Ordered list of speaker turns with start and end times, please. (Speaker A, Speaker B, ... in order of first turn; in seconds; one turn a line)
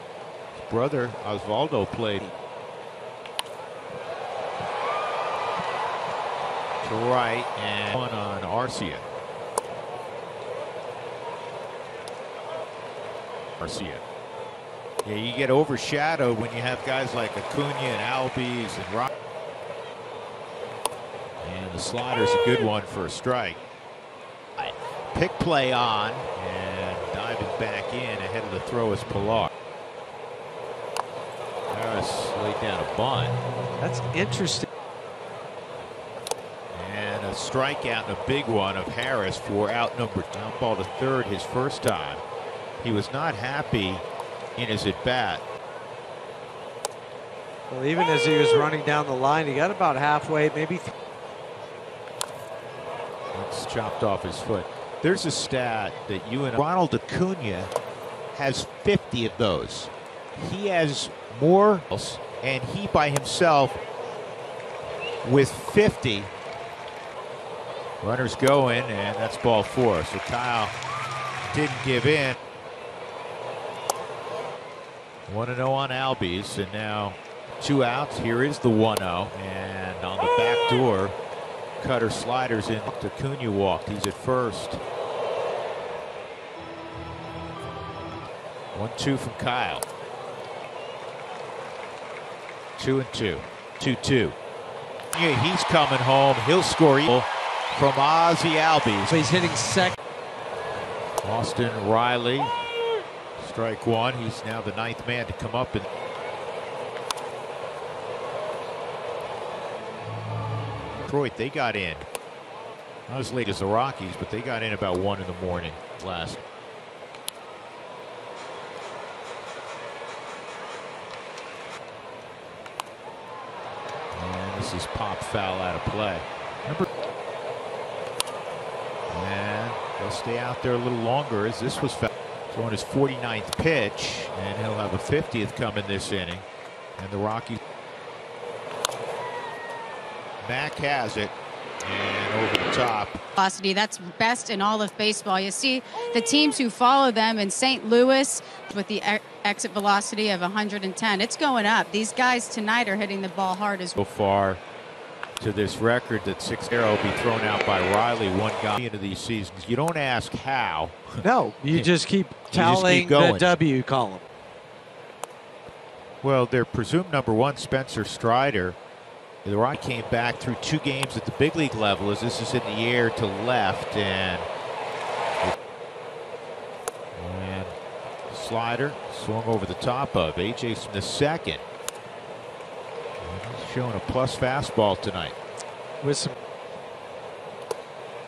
Speaker A: 0.5-2.2
Speaker A: 6.8-9.1
Speaker A: 13.6-14.0
Speaker A: 15.0-19.1
Speaker A: 21.4-23.6
Speaker A: 24.6-29.5
Speaker A: 31.7-33.3
Speaker B: 33.8-34.6
Speaker A: 36.7-42.2
Speaker A: 42.8-44.0
Speaker A: 44.5-45.4
Speaker B: 47.7-50.9
Speaker A: 53.3-57.7
Speaker A: 58.3-63.8
Speaker A: 65.2-66.3
Speaker A: 68.0-70.7
Speaker A: 71.5-72.4
Speaker A: 75.3-81.2
Speaker A: 81.8-84.8
Speaker A: 88.7-89.8
Speaker A: 92.8-94.3
Speaker A: 95.1-99.2
Speaker B: 99.1-99.9
Speaker A: 101.2-102.5
Speaker A: 103.4-105.8
Speaker A: 111.0-112.0
Speaker A: 113.1-116.4
Speaker A: 124.1-126.8
Speaker A: 129.1-136.4
Speaker A: 137.0-137.6
Speaker A: 140.4-143.2
Speaker C: 143.3-154.0
Speaker A: 154.0-154.6
Speaker A: 155.4-161.9
Speaker B: 161.2-164.2
Speaker A: 162.5-163.6
Speaker A: 166.2-168.8
Speaker A: 169.4-174.5
Speaker A: 177.1-177.8
Speaker A: 178.3-181.6
Speaker A: 183.2-185.3
Speaker B: 186.0-186.3